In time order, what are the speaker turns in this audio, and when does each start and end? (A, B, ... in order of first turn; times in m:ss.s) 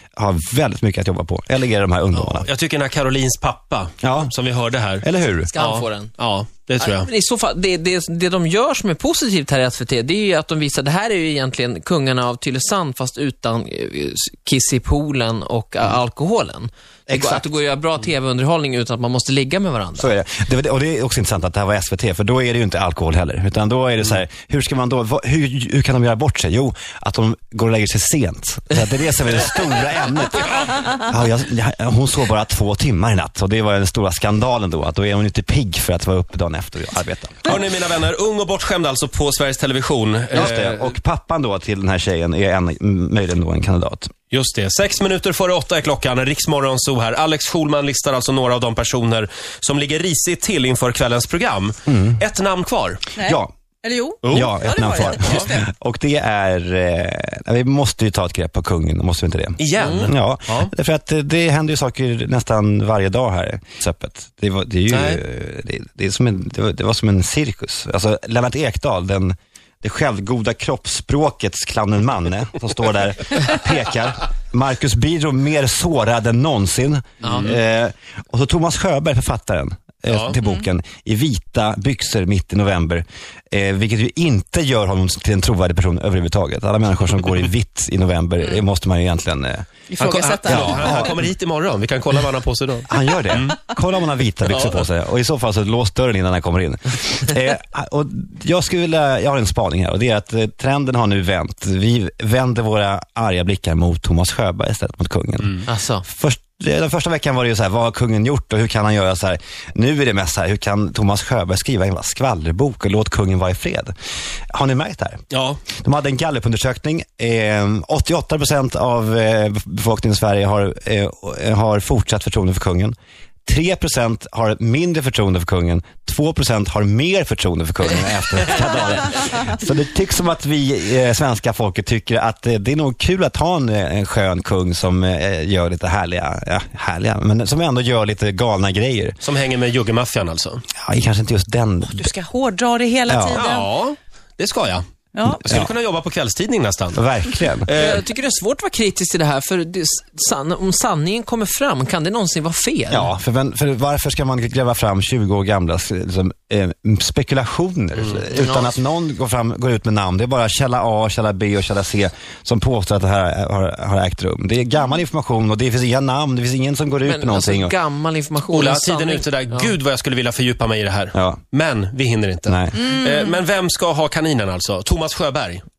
0:00.2-0:02.5 A
0:02.1-0:07.1 B
0:04.0-0:04.3 A
0:05.0-0:05.5 A
0:05.4-0:06.1 C
0:06.8-0:20.1 C
0:17.1-0:17.5 A
0:20.0-0:37.6 A
0:37.4-0:41.0 B
0:40.3-0:44.1 A
0:44.3-0:53.0 B
0:51.9-0:52.2 A
0:53.2-0:55.6 D
0:53.2-0:53.5 A
0:54.2-0:54.5 B
0:54.2-1:29.7 A
0:55.1-0:55.5 B
0:59.6-1:00.7 B
1:04.9-1:05.2 B
1:20.1-1:20.4 B
1:29.9-1:31.2 D
1:30.0-1:33.6 B
1:30.5-1:31.1 A
1:32.9-1:53.9 A
1:34.4-1:34.8 B
1:45.6-1:46.0 C
1:54.5-1:55.2 A
1:55.3-1:55.6 B
1:55.8-2:03.0 A
2:03.5-2:19.2 A
2:19.2-2:20.6 B
2:20.8-2:22.1 A
2:21.9-2:23.7 D
2:23.1-2:23.4 A
2:23.3-2:24.8 B
2:25.2-2:25.5 D
2:25.3-2:25.7 A
2:25.5-2:27.0 B
2:26.9-2:27.7 A
2:27.7-2:28.0 B
2:27.8-2:33.1 C
2:32.9-2:47.8 A
2:38.3-2:38.8 C
2:47.0-2:49.8 C
2:48.5-2:55.6 B
2:51.1-2:51.4 A
2:52.5-2:52.8 A
2:52.8-2:53.3 D